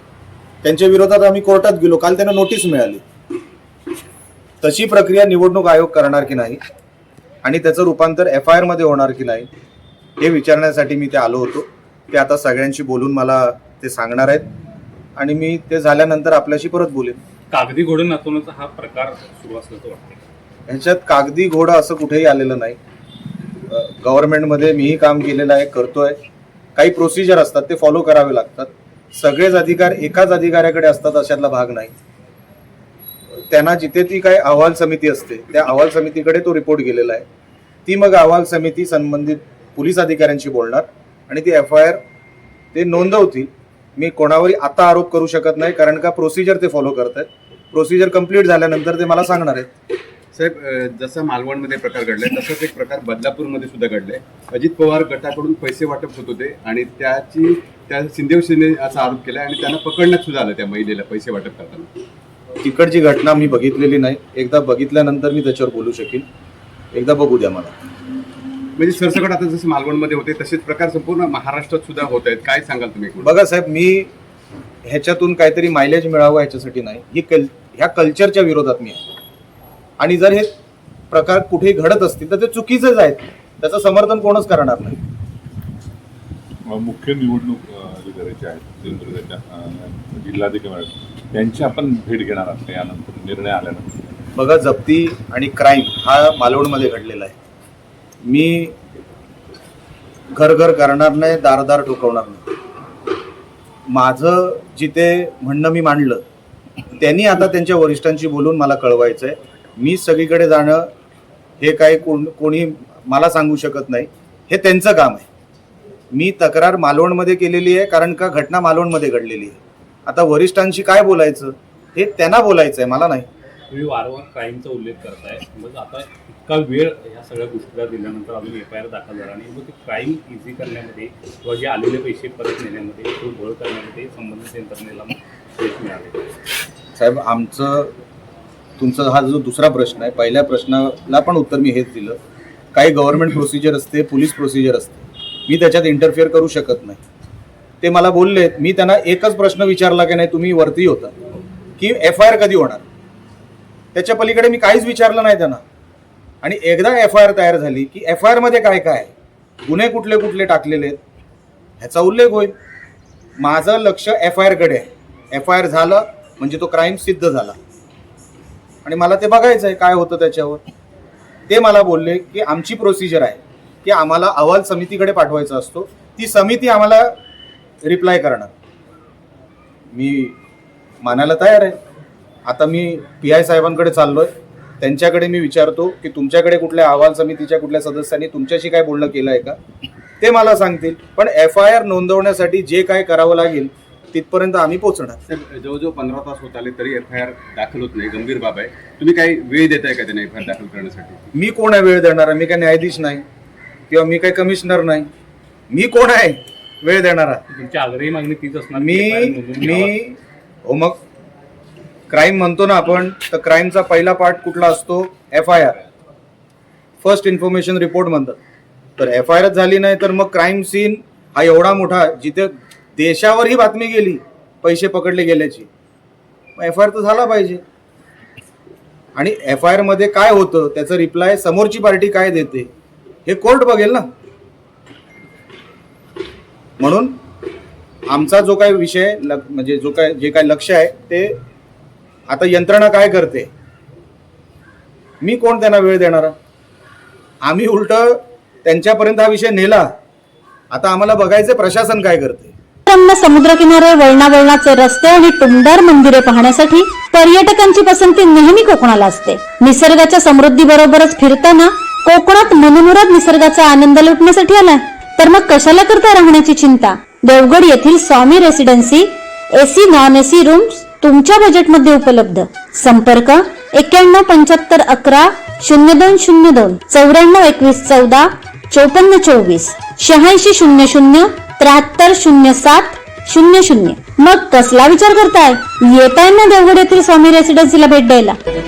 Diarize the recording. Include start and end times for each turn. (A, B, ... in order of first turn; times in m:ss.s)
0:00.6-0:03.0 A
0:04.6-0:06.6 A
0:07.4-0:09.5 A
0:10.2-0:14.5 A
0:15.2-0:17.2 A
0:17.5-0:20.2 B
0:20.7-0:22.8 A
0:23.7-0:26.2 A
0:26.8-0:31.9 A
0:33.5-0:37.2 A
0:37.8-0:42.0 A
0:42.7-0:49.7 A
0:50.3-1:01.9 C
1:02.6-1:06.2 A
1:06.9-1:07.7 A
1:08.8-1:13.3 C
1:13.2-1:14.1 A
1:14.8-1:19.0 A
1:20.0-1:20.5 A
1:21.1-1:25.0 A
1:26.7-1:34.0 D
1:34.3-1:37.3 A
1:38.2-1:38.8 A
1:40.3-1:42.4 A
1:43.9-1:46.2 A
1:47.0-1:50.9 A
1:51.6-1:55.3 A
1:56.1-2:03.3 A
2:03.7-2:16.2 B
2:17.0-2:17.9 A
2:18.8-2:22.2 A
2:22.7-2:27.0 A
2:27.8-2:31.1 A
2:31.8-2:32.8 A
2:33.9-2:35.6 A
2:36.4-2:39.1 A
2:39.6-2:41.0 A
2:41.8-2:42.5 A
2:43.4-2:47.6 A
2:48.8-2:50.6 A
2:51.5-2:57.2 A
2:57.8-2:58.5 A
2:59.9-3:00.4 A
3:01.0-3:01.8 A
3:02.4-3:09.6 A
3:10.2-3:15.2 A
3:15.3-3:21.2 C
3:21.3-3:23.2 A
3:23.9-3:25.1 A
3:25.7-3:27.4 A
3:27.5-3:30.0 B
3:28.8-3:31.0 A
3:32.1-3:35.8 A
3:37.0-3:38.4 A
3:39.0-3:45.7 A
3:46.6-3:47.6 A
3:49.1-3:52.7 A
3:53.2-3:54.1 A
3:56.8-3:57.2 A
3:58.1-4:01.4 A
4:02.3-4:03.5 A
4:05.2-4:06.3 A
4:07.4-4:09.9 A
4:10.7-4:12.5 A
4:12.8-4:48.4 E